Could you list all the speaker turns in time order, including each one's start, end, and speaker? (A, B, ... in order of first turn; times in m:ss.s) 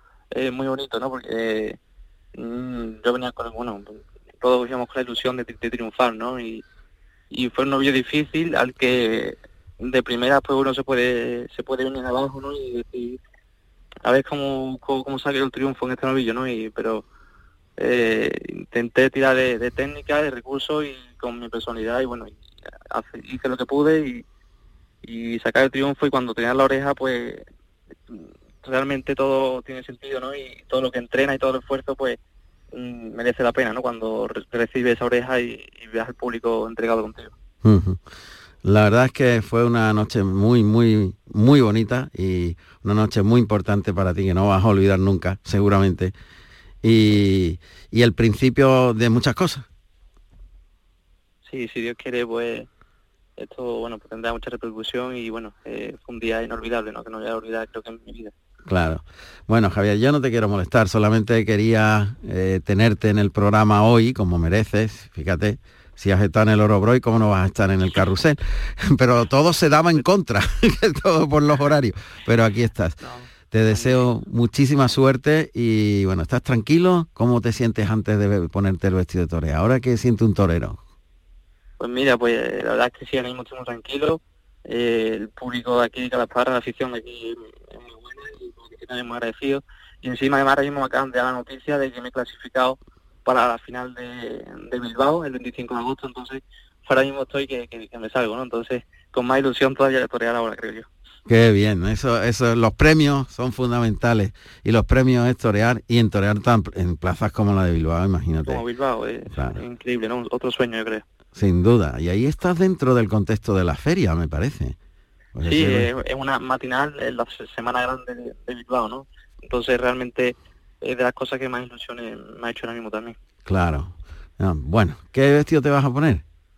0:00.3-0:01.8 A
0:02.3-0:06.6 A
0:07.3-0:13.2 A
0:14.0-0:17.0 A
0:17.8-0:22.4 A
0:22.9-0:24.2 A
0:25.0-0:27.4 A
0:28.1-0:32.2 A
0:32.7-0:37.3 A
0:37.6-0:38.0 B
0:38.6-0:46.1 B
0:46.8-0:49.6 B
0:51.4-0:52.7 A
0:53.4-0:58.3 A
0:58.6-1:20.8 B
1:13.0-1:14.1 A
1:21.8-1:40.9 A
1:41.2-1:48.6 B
1:48.4-1:51.0 A
1:49.3-1:49.6 B
1:51.3-1:54.8 B
1:55.3-1:55.9 B
1:55.4-2:03.2 A
2:03.4-2:06.2 B